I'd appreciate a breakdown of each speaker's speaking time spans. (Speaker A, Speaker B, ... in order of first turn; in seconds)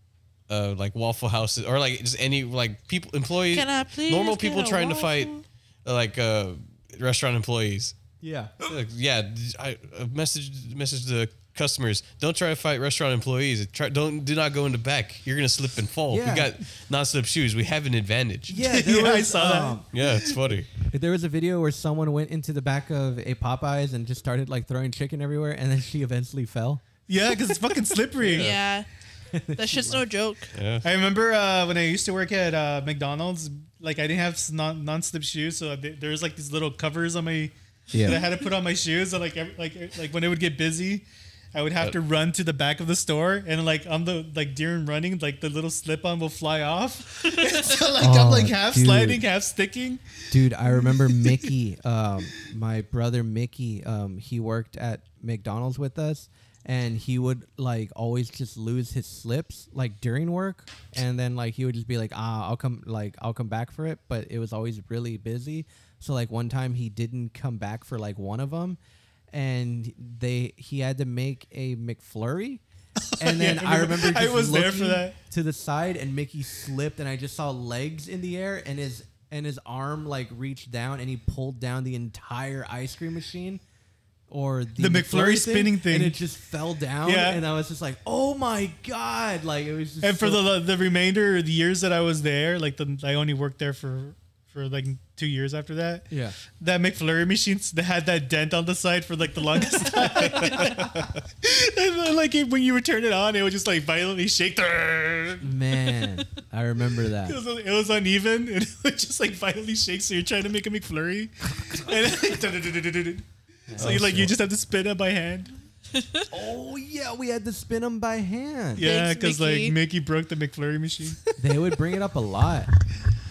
Speaker A: 0.5-5.3, 5.8-8.0, 8.7-18.5, 19.9-20.7, 28.3-28.6, 30.5-30.8, 113.8-114.1
Speaker B: 3.5-5.4, 28.3-28.9, 29.6-30.5, 47.5-47.7, 118.8-119.8
Speaker C: 8.2-8.5, 16.1-16.5, 18.5-19.9, 20.9-26.8, 29.3-30.0, 37.9-38.2, 48.0-49.2, 50.3-68.8, 69.3-72.6, 73.2-83.6, 84.3-90.5, 96.1-96.4, 105.4-107.4, 113.7-114.3, 116.3-118.9, 121.4-122.7
Speaker D: 18.6-20.3, 27.1-28.5, 30.8-50.0, 50.9-51.4, 73.1-75.2, 84.8-86.2, 87.0-87.4, 90.0-105.5, 107.3-115.5, 118.8-121.3